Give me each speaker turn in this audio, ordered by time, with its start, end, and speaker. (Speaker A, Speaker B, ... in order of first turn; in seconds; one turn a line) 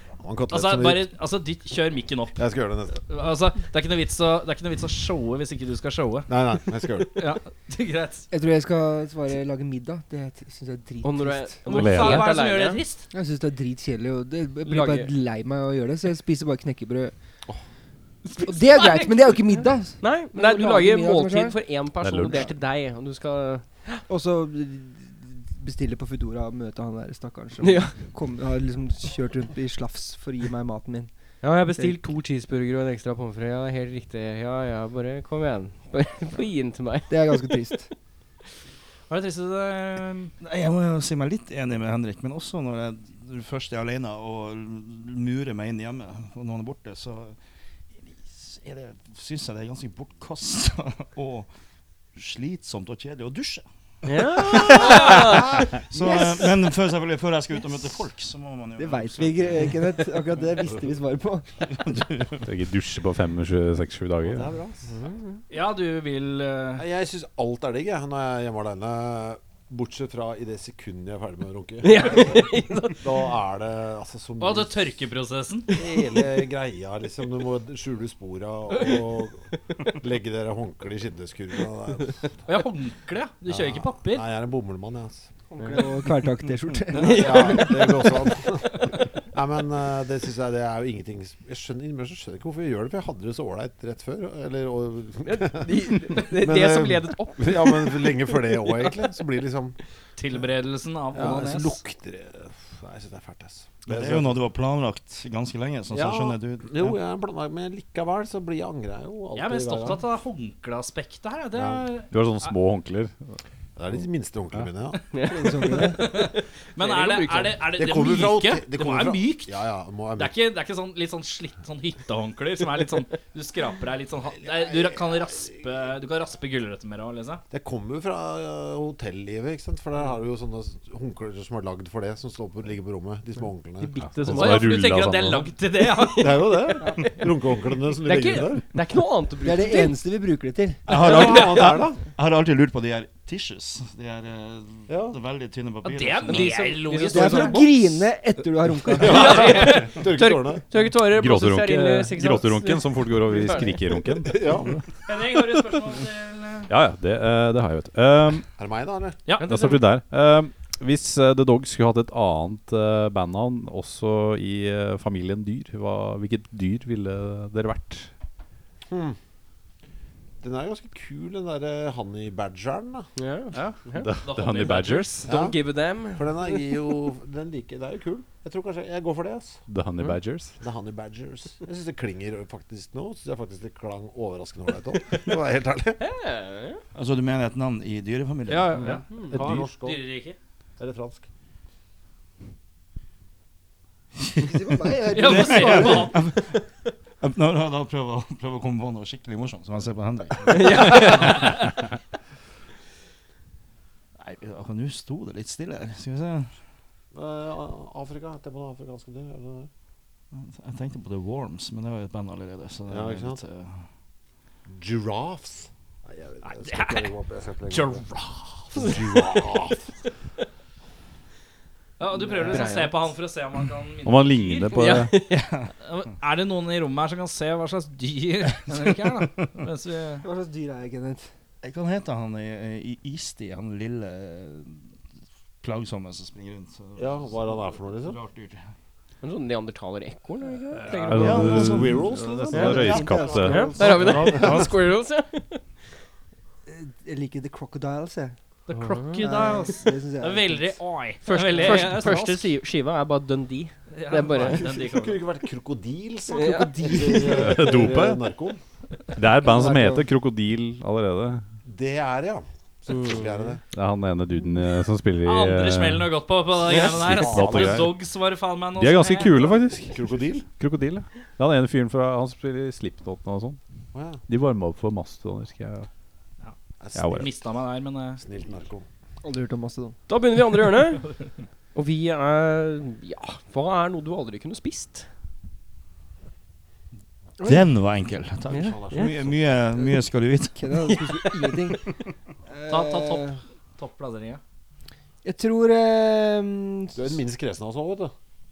Speaker A: 0.2-1.1
Speaker B: 0.5-2.4
Speaker A: 2.4-3.0
Speaker B: 2.9-6.3
Speaker A: 6.3-7.2
Speaker B: 7.1-8.3
Speaker C: 8.3-11.6
Speaker D: 11.0-12.8
Speaker B: 11.6-13.1
Speaker E: 11.7-12.3
Speaker C: 13.1-17.1
Speaker D: 14.6-15.1
Speaker B: 18.2-19.3
Speaker C: 18.4-21.6
Speaker D: 20.0-24.0
Speaker E: 22.0-22.5
Speaker C: 24.1-32.0
Speaker D: 27.6-28.0
Speaker D: 31.4-37.8
Speaker C: 37.1-37.9
Speaker B: 39.1-40.3
Speaker F: 40.4-47.4
Speaker F: 48.0-51.5
Speaker F: 52.1-60.2
Speaker D: 54.0-55.7
Speaker C: 58.8-61.6
Speaker F: 61.7-62.5
Speaker E: 62.4-64.5
Speaker A: 64.2-65.1
Speaker B: 65.5-66.8
Speaker A: 66.8-74.9
Speaker D: 71.8-73.3
Speaker B: 74.4-75.8
Speaker A: 75.7-82.3
Speaker D: 78.7-79.0
Speaker B: 82.5-84.2
Speaker A: 83.5-85.3
Speaker C: 85.5-88.1
Speaker D: 86.9-88.4
Speaker A: 86.9-99.8
Speaker D: 95.2-99.1
Speaker B: 100.2-101.8
Speaker A: 101.1-104.4
Speaker F: 103.8-107.0
Speaker A: 105.9-110.0
Speaker B: 109.3-112.5
Speaker A: 111.5-111.8
Speaker E: 112.1-113.4
Speaker A: 113.8-115.0
Speaker D: 115.1-117.6
Speaker C: 115.2-116.0
Speaker B: 115.7-119.5
Speaker A: 117.7-120.3
Speaker B: 120.2-127.4
Speaker A: 124.5-125.1
Speaker A: 127.5-133.9
Speaker D: 133.8-134.8
Speaker E: 134.0-135.5
Speaker B: 134.2-136.6
Speaker A: 136.2-138.6
Speaker D: 136.8-137.2
Speaker D: 137.9-140.0
Speaker C: 139.4-140.8
Speaker A: 140.9-142.0
Speaker F: 140.9-146.7
Speaker A: 144.9-145.2
Speaker B: 145.8-147.7
Speaker D: 146.3-147.8
Speaker C: 147.1-149.3
Speaker A: 149.0-150.6
Speaker D: 149.0-154.1
Speaker B: 149.0-149.9
Speaker E: 151.0-154.7
Speaker A: 154.2-154.8
Speaker B: 155.1-156.7
Speaker E: 156.7-158.5
Speaker A: 158.6-159.2
Speaker B: 159.2-159.7
Speaker D: 159.4-159.8
Speaker E: 159.4-168.1
Speaker A: 168.9-169.2
Speaker A: 170.4-173.1
Speaker D: 173.2-174.1
Speaker B: 173.5-175.1
Speaker E: 173.9-175.3
Speaker D: 175.2-176.8
Speaker A: 175.2-175.6
Speaker A: 176.1-179.6
Speaker E: 179.7-180.6
Speaker A: 180.6-186.0
Speaker D: 186.0-186.8
Speaker F: 186.9-188.9
Speaker B: 188.5-190.4
Speaker D: 188.5-189.4
Speaker A: 189.3-190.1
Speaker A: 190.8-191.2
Speaker F: 194.2-196.5
Speaker C: 194.4-196.3
Speaker B: 195.1-196.2
Speaker F: 197.2-201.7
Speaker D: 200.5-201.5
Speaker B: 200.7-201.7
Speaker F: 204.2-206.5
Speaker A: 207.1-209.7
Speaker F: 210.3-213.9
Speaker A: 212.9-213.4
Speaker A: 214.7-218.0
Speaker B: 216.4-217.1
Speaker B: 217.7-219.0
Speaker A: 218.7-219.9
Speaker D: 218.8-219.4
Speaker B: 222.0-224.9
Speaker D: 222.2-223.1
Speaker E: 224.0-225.2
Speaker D: 224.7-225.3
Speaker F: 225.2-225.7
Speaker B: 225.8-230.2
Speaker F: 228.7-229.5
Speaker C: 230.2-231.3
Speaker F: 231.6-234.9
Speaker F: 235.6-238.7
Speaker A: 237.0-238.2
Speaker D: 239.2-241.7
Speaker B: 240.8-241.2
Speaker F: 241.0-244.7
Speaker E: 241.1-243.8
Speaker A: 241.2-244.7
Speaker D: 243.4-245.6
Speaker C: 246.7-248.3
Speaker B: 248.7-252.5
Speaker D: 248.8-249.2
Speaker C: 249.2-250.8
Speaker D: 251.2-254.7
Speaker B: 253.9-255.2
Speaker A: 254.5-258.6
Speaker C: 256.3-257.9
Speaker D: 256.3-257.2
Speaker E: 257.3-258.2
Speaker E: 259.1-261.4
Speaker C: 259.4-260.1
Speaker A: 261.6-263.6
Speaker D: 262.9-263.6
Speaker E: 263.7-266.1
Speaker B: 265.2-269.6
Speaker A: 266.7-267.9
Speaker E: 266.8-267.9
Speaker E: 268.8-273.6
Speaker A: 269.9-270.4
Speaker A: 273.9-274.2
Speaker E: 274.3-275.9
Speaker A: 276.8-277.4
Speaker E: 276.9-277.3
Speaker B: 277.1-278.2
Speaker A: 278.2-278.8
Speaker C: 279.2-280.0
Speaker D: 280.1-281.1
Speaker D: 281.7-285.1
Speaker C: 287.4-287.6
Speaker F: 287.4-290.6
Speaker D: 288.5-289.1
Speaker A: 288.5-289.5
Speaker C: 290.6-291.9
Speaker D: 290.8-291.8
Speaker C: 292.5-293.4
Speaker B: 292.7-294.4
Speaker C: 295.2-297.2
Speaker A: 296.9-298.1